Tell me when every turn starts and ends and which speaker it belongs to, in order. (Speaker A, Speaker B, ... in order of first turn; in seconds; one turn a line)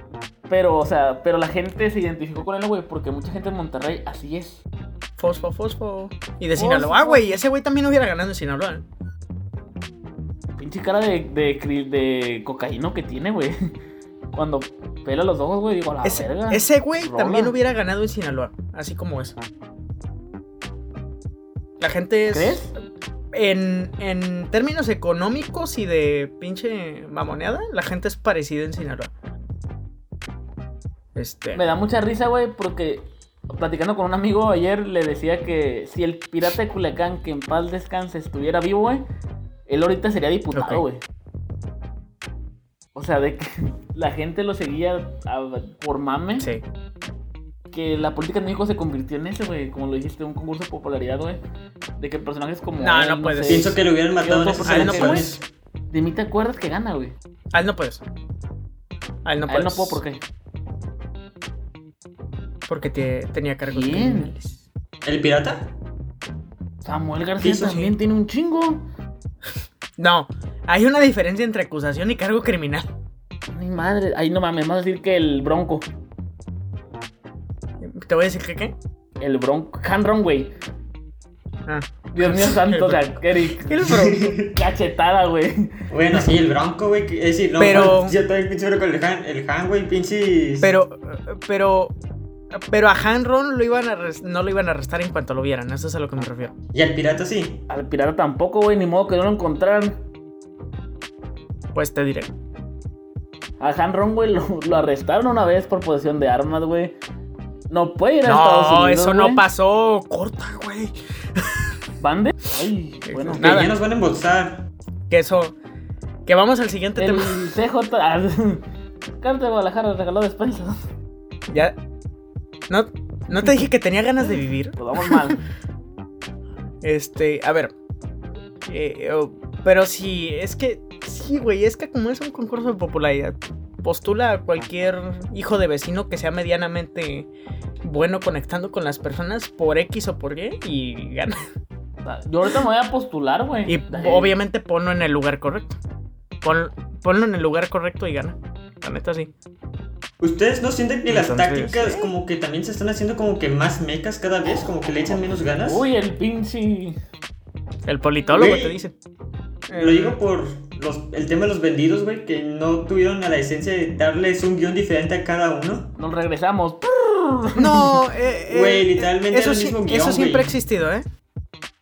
Speaker A: 0.5-4.6
Speaker B: 5.2-8.8
Speaker A: 6.6-7.4
Speaker A: 10.6-13.6
Speaker A: 14.3-17.6
Speaker B: 16.0-19.4
Speaker B: 21.8-22.7
Speaker A: 22.3-22.7
Speaker B: 23.3-29.1
Speaker B: 31.1-31.6
Speaker A: 31.5-39.0
Speaker A: 39.7-41.0
Speaker B: 40.5-40.8
Speaker A: 43.0-46.5
Speaker A: 47.7-51.4
Speaker A: 52.0-55.4
Speaker B: 52.8-53.8
Speaker C: 53.5-55.4
Speaker B: 54.6-55.4
Speaker A: 55.9-57.2
Speaker B: 57.5-58.0
Speaker B: 59.2-60.0
Speaker A: 59.5-60.2
Speaker B: 62.7-64.6
Speaker A: 63.7-64.3
Speaker C: 65.0-65.7
Speaker A: 66.8-68.8
Speaker C: 67.4-67.8
Speaker B: 67.6-67.9
Speaker B: 70.0-72.9
Speaker A: 73.5-75.9
Speaker B: 77.8-78.8
Speaker A: 79.2-80.5
Speaker B: 81.7-83.0
Speaker A: 82.1-85.8
Speaker B: 83.6-84.4
Speaker C: 83.9-84.5
Speaker C: 85.9-90.7
Speaker B: 87.6-88.2
Speaker B: 90.6-92.0
Speaker B: 92.5-96.5
Speaker C: 96.7-97.6
Speaker A: 97.7-100.0
Speaker B: 101.7-102.3
Speaker A: 103.6-107.0
Speaker A: 107.7-109.4
Speaker B: 108.2-111.7
Speaker A: 112.0-113.5
Speaker B: 113.1-113.8
Speaker C: 113.4-114.6
Speaker B: 115.1-115.6
Speaker B: 116.3-117.4
Speaker A: 117.0-120.8
Speaker B: 121.5-121.8
Speaker B: 122.7-125.4
Speaker A: 124.8-125.4
Speaker B: 126.8-127.7
Speaker B: 128.7-137.3
Speaker B: 137.8-141.4
Speaker A: 142.0-144.3
Speaker B: 143.7-145.8
Speaker B: 146.4-149.3
Speaker C: 150.2-155.9
Speaker B: 151.1-152.1
Speaker A: 155.6-157.0
Speaker B: 157.9-158.9
Speaker C: 158.3-158.8
Speaker B: 159.7-160.2
Speaker C: 159.7-165.9
Speaker A: 166.0-167.9
Speaker B: 167.6-171.1
Speaker C: 168.5-170.5